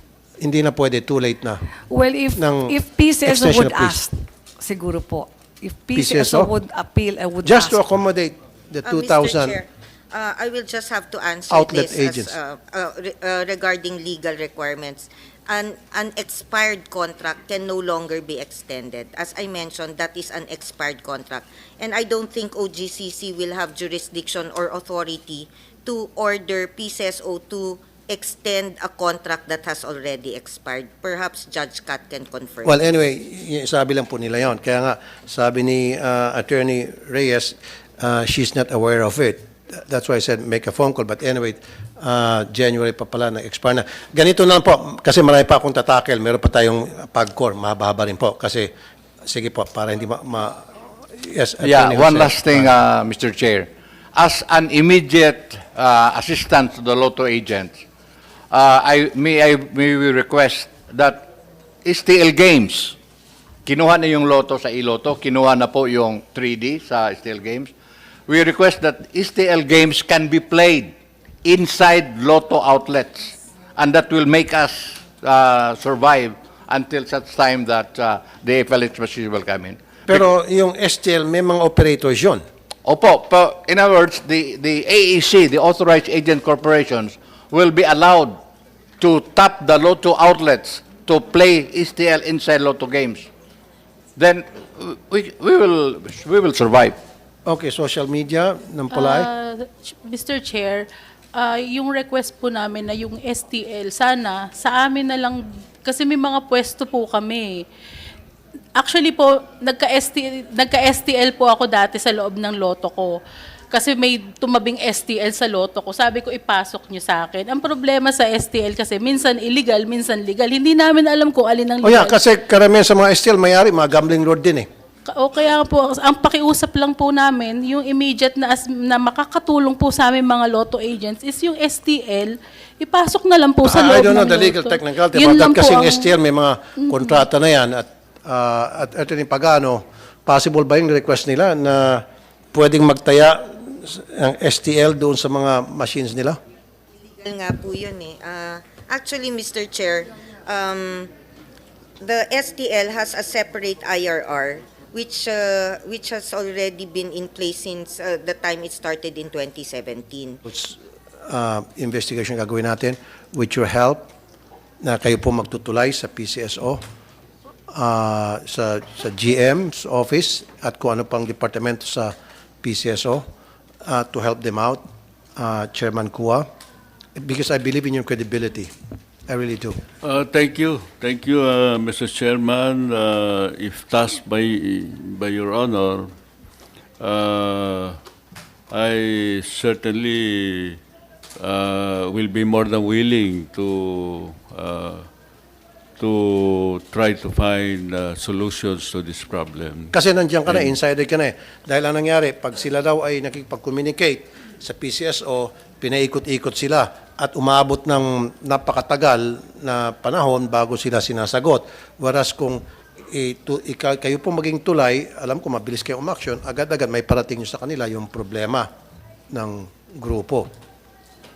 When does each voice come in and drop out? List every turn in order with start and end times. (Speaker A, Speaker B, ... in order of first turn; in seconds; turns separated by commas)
Speaker A: 0.4-1.7, Speaker B: 1.9-7.8, Speaker A: 2.4-4.0, Speaker A: 6.0-6.5, Speaker A: 7.4-9.6, Speaker C: 8.8-32.8, Speaker A: 11.5-12.3, Speaker A: 32.6-48.7, Speaker A: 49.2-52.7, Speaker D: 51.6-57.8, Speaker D: 58.5-61.3, Speaker D: 61.9-63.0, Speaker D: 63.7-67.7, Speaker D: 68.3-80.2, Speaker A: 80.1-82.4, Speaker D: 82.8-88.4, Speaker D: 89.0-93.3, Speaker D: 94.2-97.0, Speaker A: 97.5-99.3, Speaker E: 98.9-107.7, Speaker E: 108.8-113.2, Speaker E: 113.7-122.2, Speaker A: 121.8-124.7, Speaker E: 125.1-136.1, Speaker A: 133.6-146.4, Speaker E: 136.8-137.2, Speaker C: 147.2-151.1, Speaker C: 152.0-160.4, Speaker A: 160.5-160.8, Speaker A: 161.3-164.1, Speaker A: 164.8-166.8, Speaker A: 167.7-173.3, Speaker A: 173.8-174.8, Speaker A: 175.4-176.5, Speaker A: 177.2-178.7, Speaker A: 179.3-179.8, Speaker F: 180.0-186.2, Speaker F: 187.0-188.0, Speaker F: 188.7-190.8, Speaker F: 191.4-195.1, Speaker F: 196.0-199.9, Speaker A: 199.9-212.6, Speaker F: 200.5-200.7, Speaker A: 213.1-218.7, Speaker A: 219.3-220.5